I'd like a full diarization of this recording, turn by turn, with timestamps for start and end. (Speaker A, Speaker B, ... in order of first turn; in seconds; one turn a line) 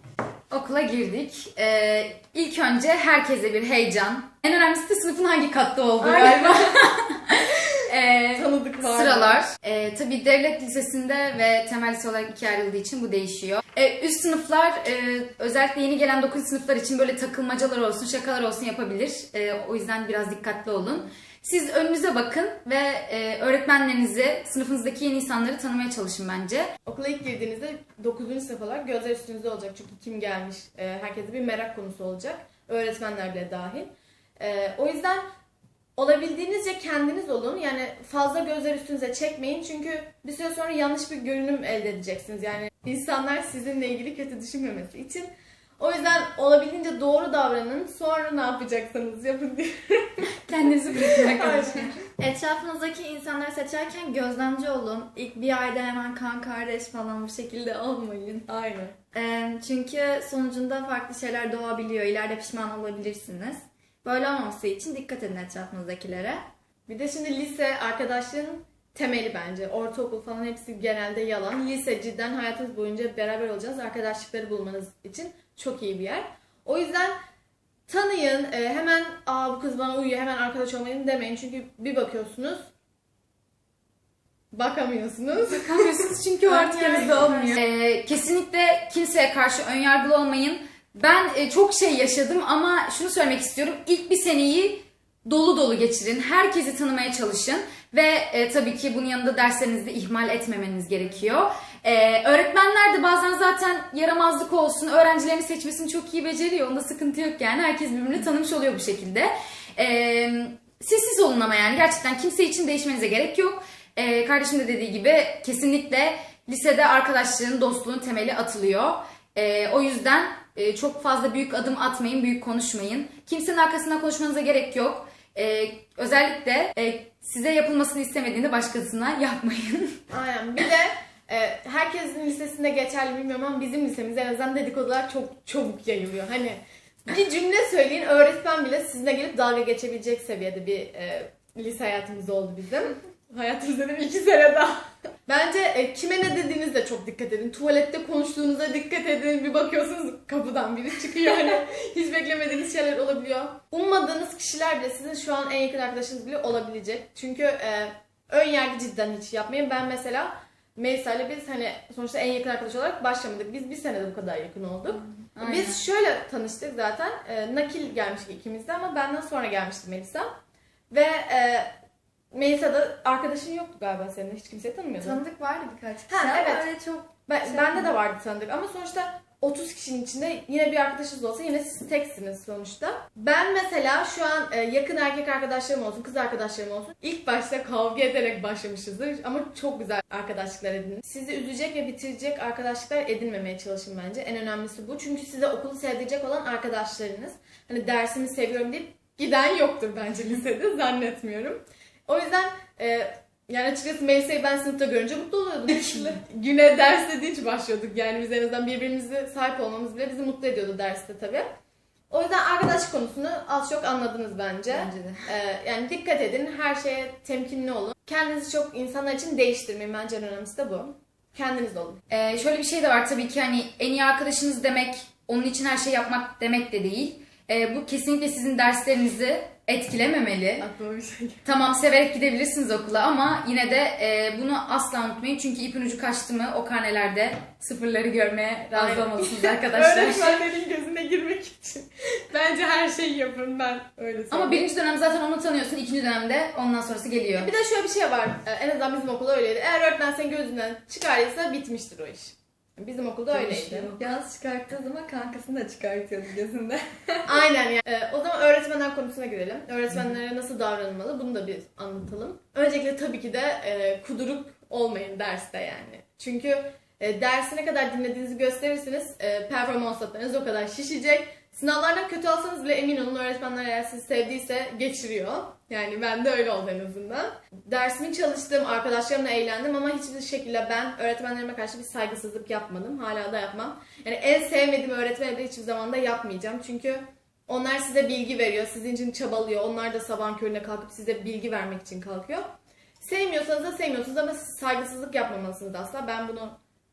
Speaker A: 0.5-26.7
Speaker B: 6.0-6.7
Speaker B: 8.3-9.4
Speaker B: 26.9-35.2
Speaker B: 36.0-50.4
Speaker A: 50.5-52.0
Speaker B: 50.9-52.0
Speaker C: 52.1-58.5
Speaker B: 58.5-58.9
Speaker C: 59.1-66.4
Speaker B: 66.9-77.2
Speaker B: 77.9-82.7
Speaker B: 84.5-87.6
Speaker A: 85.5-130.0
Speaker B: 130.1-170.3
Speaker A: 165.3-165.8
Speaker B: 170.9-171.7
Speaker B: 172.3-175.2
Speaker C: 175.0-177.9
Speaker B: 176.1-176.7
Speaker B: 177.3-211.5
Speaker A: 205.8-206.0
Speaker B: 212.1-222.0
Speaker A: 214.7-215.2
Speaker A: 222.1-230.7
Speaker B: 230.6-231.4
Speaker A: 231.4-240.4
Speaker B: 238.7-244.6
Speaker A: 244.3-247.5
Speaker B: 247.3-253.9
Speaker C: 253.3-257.4
Speaker B: 257.2-292.4
Speaker B: 293.0-296.6